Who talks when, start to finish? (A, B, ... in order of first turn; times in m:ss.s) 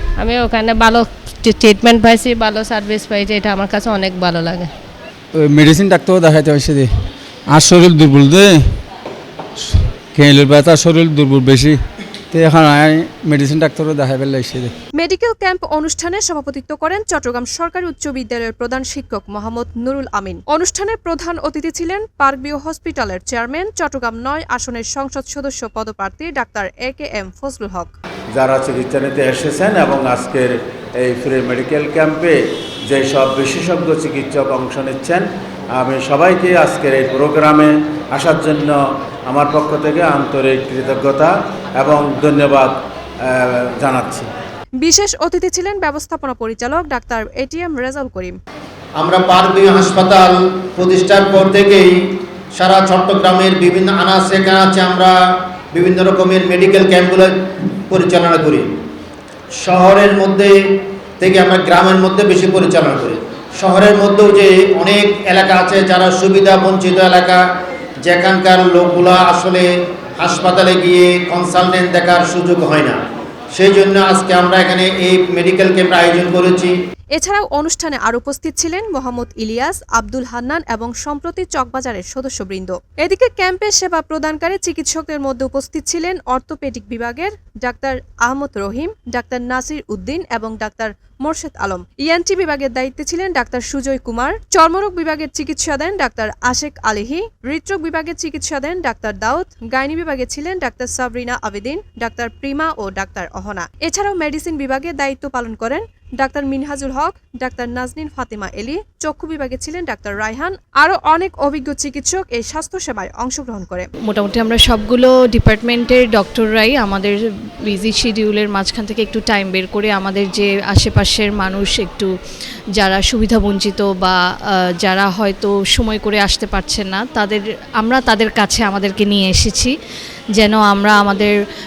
0:00.2-0:04.7 A
0:05.3-0:06.9 B
0:07.5-0:08.6 B
0:09.6-0:11.8 B
0:12.3-0:14.7 B
0:15.0-0:27.9 C
0:28.3-0:44.3 D
0:44.8-0:48.4 C
0:49.0-0:52.0 E
0:52.6-0:55.1 E
0:55.7-0:58.7 E
0:59.6-1:00.5 E
1:01.2-1:07.4 E
1:08.0-1:09.7 E
1:10.2-1:13.0 E
1:13.5-1:16.7 E
1:17.1-1:53.9 C
1:54.1-1:57.1 F
1:57.7-2:02.1 F
2:02.8-2:04.1 F
2:04.8-2:09.7 F
2:10.4-2:11.3 F